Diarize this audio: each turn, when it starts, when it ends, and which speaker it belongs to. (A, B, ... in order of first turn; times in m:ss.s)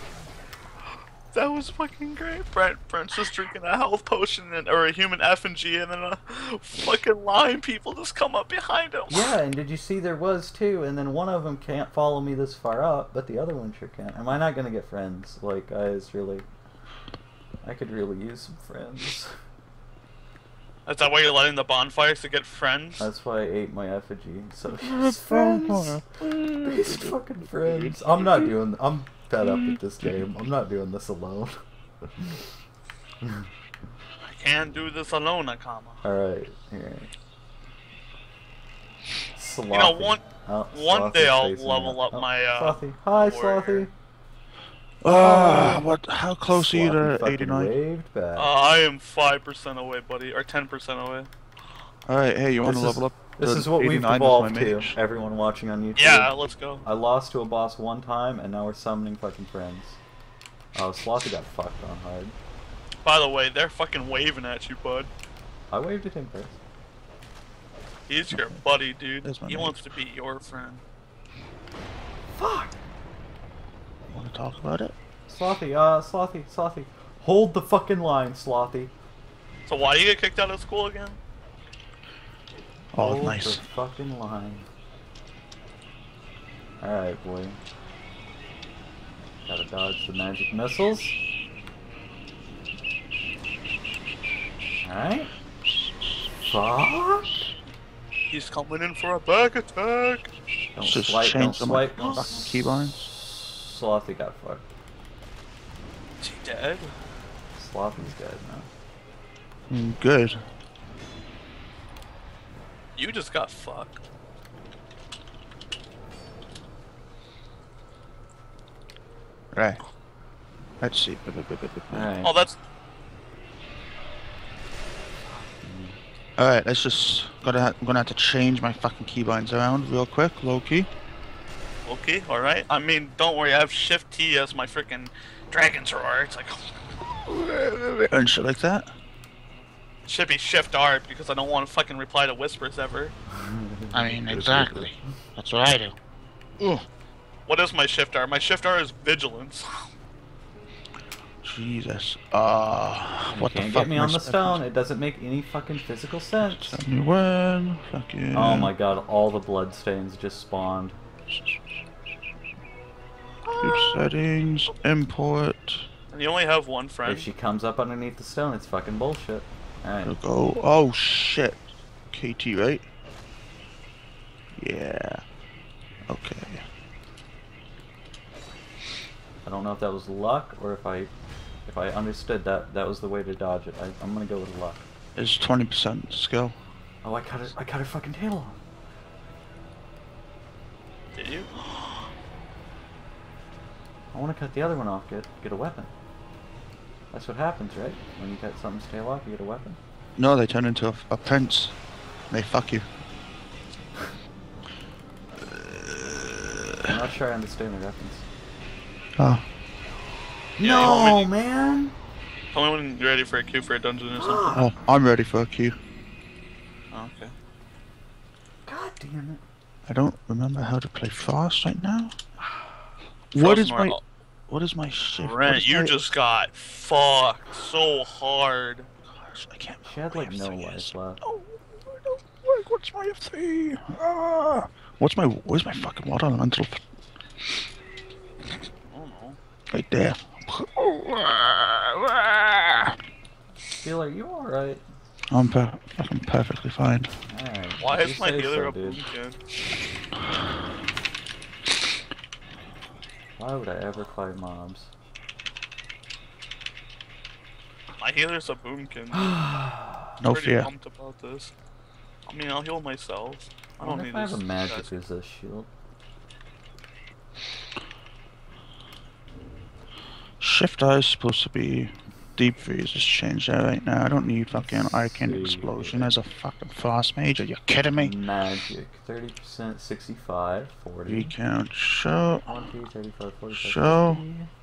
0:01.3-0:09.4 A
0:09.1-0:16.5 B
0:17.6-0:19.4 B
0:20.9-0:23.1 A
0:23.0-0:31.6 B
0:24.8-0:28.5 C
0:29.4-0:30.1 C
0:33.2-0:33.5 B
0:34.2-0:36.0 A
0:36.0-0:37.1 B
0:39.4-0:43.9 B
0:39.7-0:43.9 A
0:45.0-0:47.7 C
0:45.0-0:45.9 B
0:46.5-0:48.5 B
0:48.4-0:51.3 A
0:52.1-0:54.9 C
0:52.6-1:00.0 B
0:56.0-0:56.9 A
1:00.8-1:02.4 B
1:03.0-1:05.1 A
1:05.7-1:06.6 B
1:08.1-1:10.8 A
1:09.2-1:10.0 C
1:12.4-1:12.8 B
1:14.1-1:14.9 C
1:15.3-1:18.9 B
1:19.7-1:21.2 A
1:22.9-1:24.7 B
1:22.9-1:23.6 C
1:26.8-1:27.6 B
1:29.4-1:31.2 B
1:34.8-1:35.3 B
1:35.7-1:36.1 C
1:36.5-1:37.5 B
1:38.3-1:40.3 A
1:40.8-1:44.7 B
1:40.8-1:43.1 C
1:46.2-1:47.0 A
1:47.6-1:48.7 B
1:49.7-1:50.4 C
1:53.0-1:54.0 A
1:59.5-1:59.8 C
2:00.8-2:02.1 C
2:01.9-2:02.4 B
2:02.2-2:02.6 A
2:05.6-2:06.0 B
2:06.4-2:10.9 C
2:11.9-2:16.7 A
2:17.2-2:18.9 C
2:20.1-2:23.1 A
2:23.3-2:25.1 B
2:23.9-2:26.0 C
2:26.6-2:26.9 C
2:27.5-2:29.8 A
2:31.4-2:34.6 C
2:33.3-2:36.8 B
2:36.4-2:38.7 C
2:38.3-2:41.0 B
2:43.4-2:44.1 B
2:43.6-2:45.9 C
2:46.1-2:47.3 A
2:47.0-2:50.2 B
2:50.0-2:52.8 C
2:54.6-2:55.2 C
2:56.1-2:56.6 C
2:59.4-3:01.1 B
3:01.7-3:04.9 B
3:05.2-3:06.6 C
3:07.0-3:08.6 B
3:11.2-3:12.1 A
3:14.1-3:15.9 B
3:17.1-3:19.8 B
3:20.2-3:21.8 C
3:22.3-3:22.9 C
3:25.4-3:27.0 C
3:26.8-3:28.2 B
3:29.2-3:29.4 C
3:30.6-3:32.0 B
3:30.6-3:31.3 A
3:32.5-3:34.4 A
3:34.2-3:34.7 B
3:34.5-3:35.8 C
3:36.9-3:37.3 A
3:38.7-3:39.4 B
3:39.9-3:42.2 C
3:43.3-3:46.0 C
3:43.4-3:44.0 A
3:45.0-3:48.9 A
3:49.0-3:56.8 C
3:49.8-3:51.2 B
3:58.9-3:59.4 A
3:59.7-4:03.0 C
4:03.8-4:04.8 B
4:05.3-4:07.1 C
4:07.3-4:09.0 B
4:07.8-4:09.4 A
4:13.4-4:14.9 B
4:18.0-4:19.3 A
4:19.1-4:20.2 B
4:20.2-4:20.7 C
4:20.3-4:21.5 A
4:22.3-4:24.9 A
4:23.8-4:25.7 B
4:30.4-4:38.1 C
4:34.5-4:36.1 B
4:38.0-4:41.3 B
4:41.1-4:42.6 C
4:42.5-4:44.5 B
4:43.5-4:44.2 C